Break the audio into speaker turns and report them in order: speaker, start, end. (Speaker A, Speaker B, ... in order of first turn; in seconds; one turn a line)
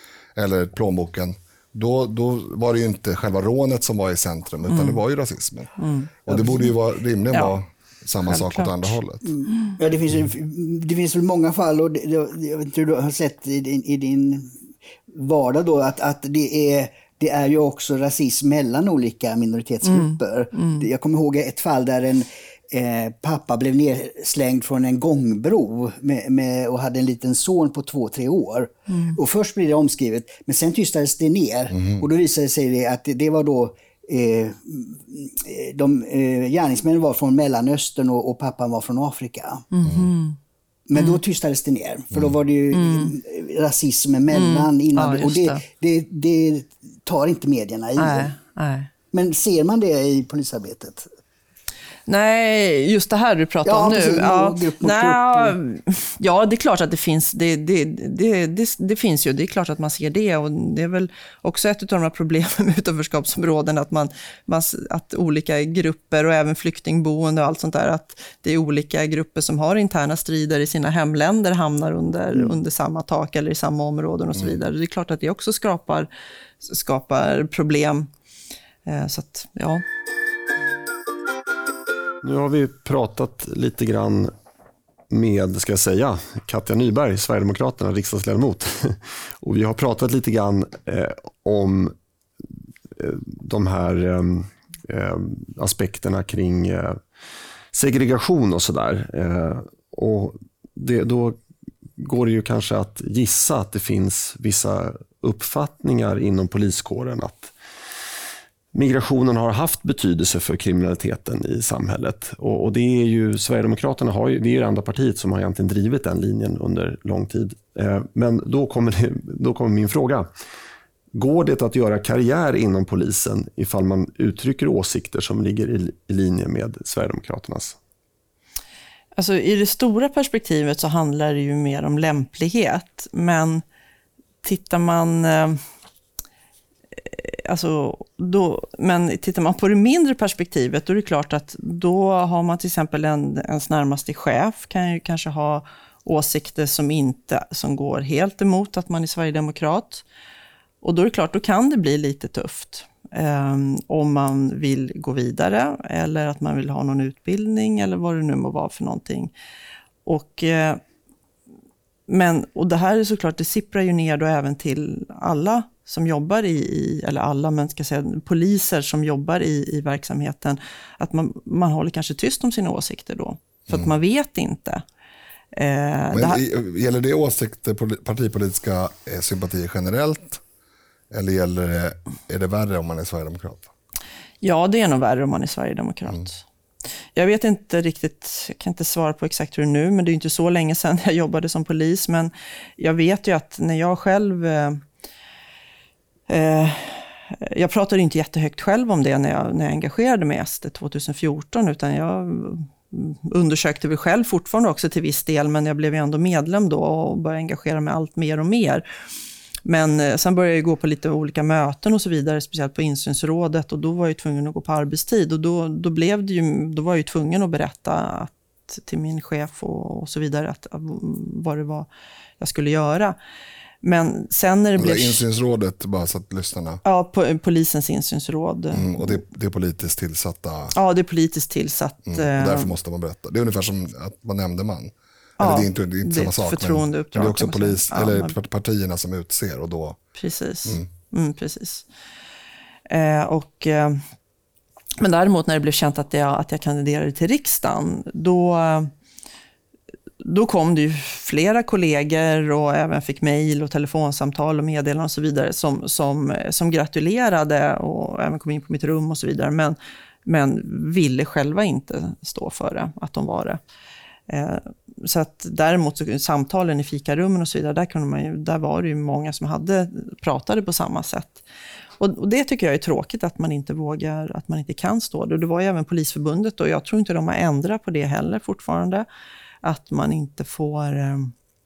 Speaker A: 0.4-5.7
Speaker B: 4.7-5.0
Speaker B: 5.8-6.7
Speaker A: 6.3-9.2
Speaker B: 8.2-9.0
Speaker C: 9.2-14.6
Speaker C: 15.1-39.7
Speaker B: 19.9-20.9
Speaker B: 28.9-29.2
Speaker A: 31.7-32.0
Speaker B: 39.7-40.4
Speaker C: 40.9-48.3
Speaker B: 41.0-41.2
Speaker B: 42.7-43.1
Speaker B: 44.3-45.6
Speaker B: 48.0-48.9
Speaker C: 49.1-51.1
Speaker B: 52.1-76.1
Speaker C: 53.6-55.6
Speaker B: 76.6-78.1
Speaker B: 78.9-79.8
Speaker D: 82.2-84.3
Speaker D: 85.1-92.0
Speaker D: 93.0-97.0
Speaker D: 97.7-101.4
Speaker D: 102.0-107.5
Speaker D: 108.7-120.3
Speaker D: 121.1-127.8
Speaker B: 129.2-133.6
Speaker B: 134.4-135.6
Speaker B: 137.1-150.0
Speaker B: 150.8-159.3
Speaker B: 160.1-160.8
Speaker B: 162.1-174.8
Speaker B: 175.5-176.4
Speaker A: 176.1-180.4
Speaker A: 181.1-183.7
Speaker B: 184.4-186.4
Speaker B: 187.1-194.8
Speaker B: 196.3-208.8
Speaker B: 209.7-221.9
Speaker B: 222.4-223.2
Speaker B: 223.8-225.2
Speaker A: 224.8-226.8
Speaker B: 226.8-229.2
Speaker A: 228.7-230.7
Speaker B: 230.7-232.7
Speaker A: 232.1-240.0
Speaker B: 235.4-238.3
Speaker B: 240.2-241.9
Speaker B: 242.9-244.0
Speaker B: 245.0-248.9
Speaker B: 250.2-263.6
Speaker B: 264.3-271.4
Speaker B: 272.0-279.1
Speaker B: 279.6-281.3